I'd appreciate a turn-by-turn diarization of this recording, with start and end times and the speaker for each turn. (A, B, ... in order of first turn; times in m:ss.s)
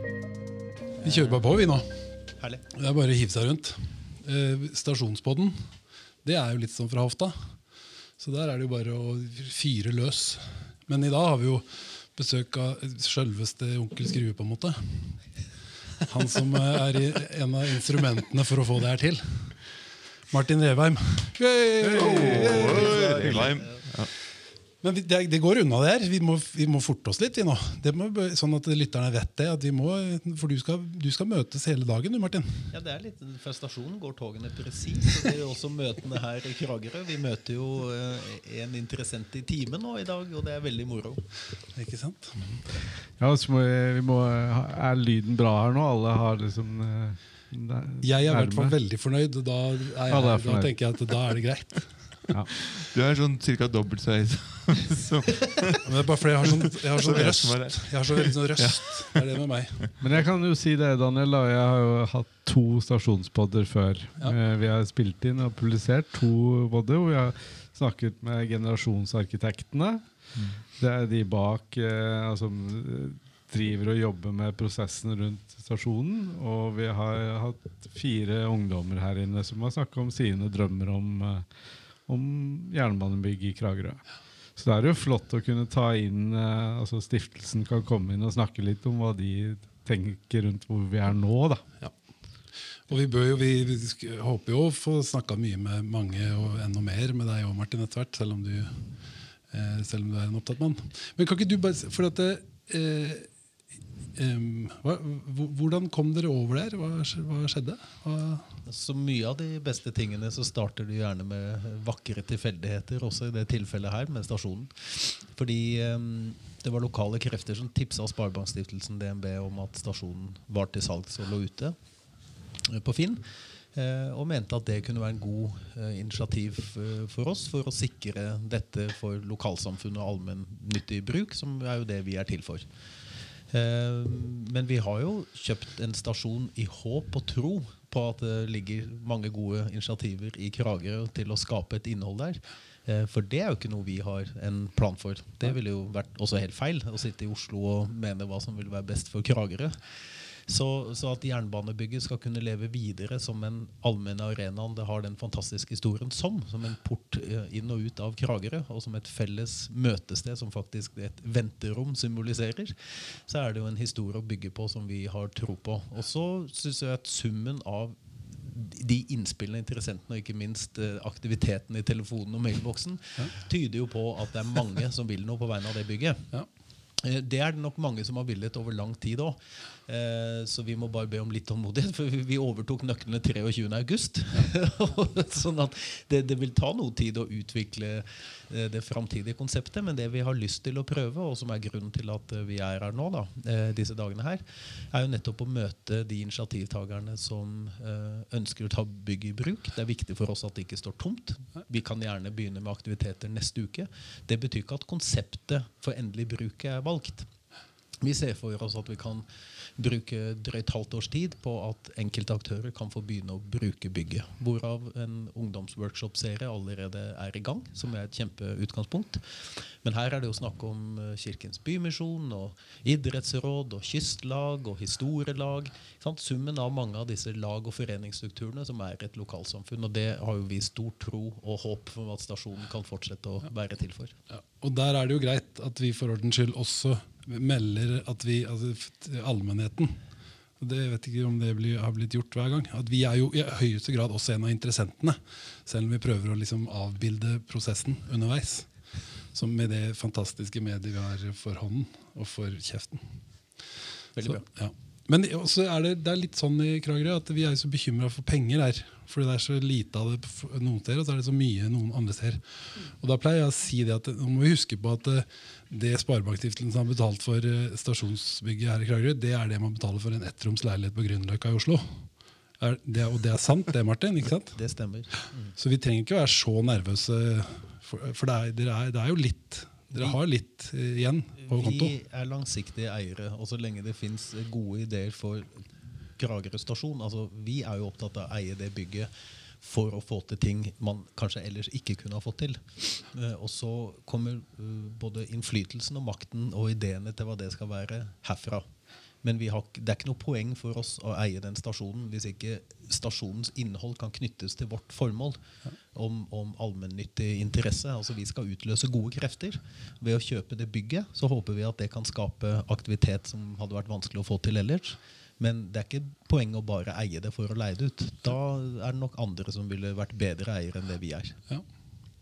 0:01.0-0:01.9 A
0:02.7-0:05.7 A
0:06.2-0:07.6 A
0:08.2-0:15.2 A
0:16.0-0:19.8 A
0:20.3-0:23.5 A
0:21.8-0:24.1 B
0:22.0-0:23.8 C
0:24.8-0:32.7 A
0:32.7-0:41.2 C
0:41.7-0:42.7 A
0:43.2-0:48.8 D
0:48.0-0:52.2 A
0:50.1-0:50.7 D
0:52.8-0:55.8 B
0:55.8-1:00.0 A
0:56.4-0:59.1 B
1:00.0-1:10.0 D
1:10.4-1:10.6 B
1:10.7-1:21.5 D
1:22.1-1:24.0 D
1:24.6-1:31.7 D
1:32.9-1:38.8 A
1:39.5-1:43.3 A
1:44.2-1:48.6 A
1:48.7-2:01.8 C
2:02.6-2:12.7 C
2:13.5-2:56.3 C
2:57.0-3:27.3 C
3:28.0-3:54.2 C
3:54.3-4:00.0 A
4:00.6-4:08.7 A
4:09.3-4:13.0 A
4:14.2-4:32.1 A
4:32.6-4:34.6 A
4:34.5-4:35.5 C
4:35.6-4:41.9 A
4:41.4-4:49.1 C
4:49.6-4:58.7 C
4:59.2-5:05.4 C
5:05.9-5:21.4 C